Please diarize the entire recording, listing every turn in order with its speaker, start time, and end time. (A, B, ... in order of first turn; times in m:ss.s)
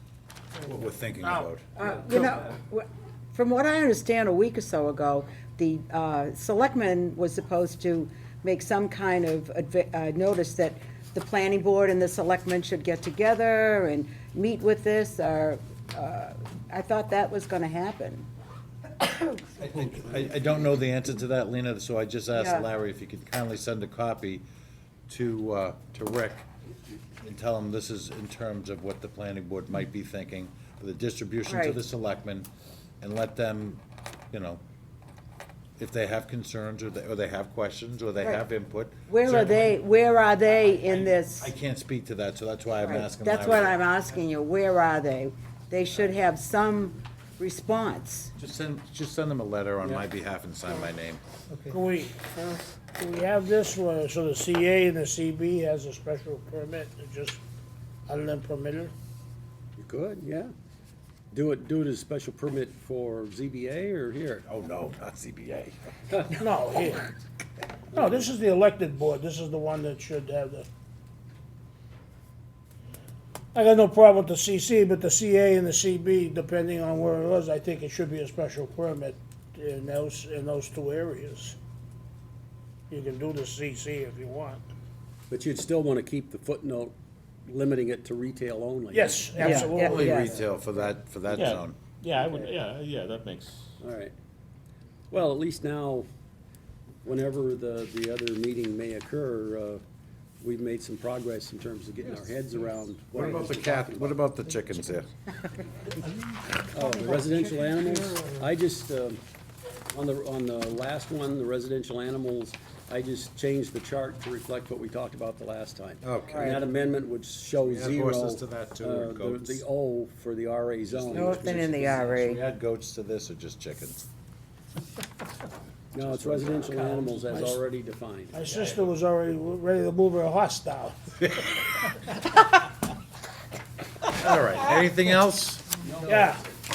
0:00.6-0:01.7 A
0:01.8-0:18.3 B
0:19.0-0:19.6 B
0:19.6-0:24.4 A
0:22.4-0:22.7 B
0:25.1-0:26.5 A
0:27.2-0:32.5 A
0:31.5-0:31.8 B
0:33.0-0:34.6 A
0:35.8-0:39.8 A
0:39.1-0:41.5 B
0:40.9-0:43.8 A
0:42.8-0:48.3 B
0:48.4-0:51.2 A
0:51.7-0:57.4 C
0:58.1-0:58.9 C
0:59.8-1:00.5 D
1:01.3-1:04.4 D
1:04.5-1:05.8 A
1:06.4-1:07.1 C
1:07.9-1:10.7 C
1:13.5-1:21.6 C
1:22.9-1:24.6 C
1:25.3-1:30.9 D
1:28.9-1:30.3 C
1:29.4-1:30.4 B
1:29.5-1:31.8 A
1:31.3-1:33.7 E
1:32.2-1:32.6 D
1:33.8-1:34.2 D
1:35.1-1:36.1 D
1:37.0-1:39.8 D
1:40.4-1:44.2 D
1:43.1-1:45.1 A
1:46.7-1:49.2 D
1:49.9-2:01.9 D
1:56.0-1:56.6 A
1:56.3-1:56.6 B
1:57.7-1:59.6 A
2:00.9-2:04.0 A
2:01.1-2:02.4 B
2:05.9-2:07.6 A
2:05.9-2:08.5 D
2:08.3-2:11.0 C
2:14.1-2:16.2 A
2:15.9-2:16.2 D
2:16.0-2:16.4 C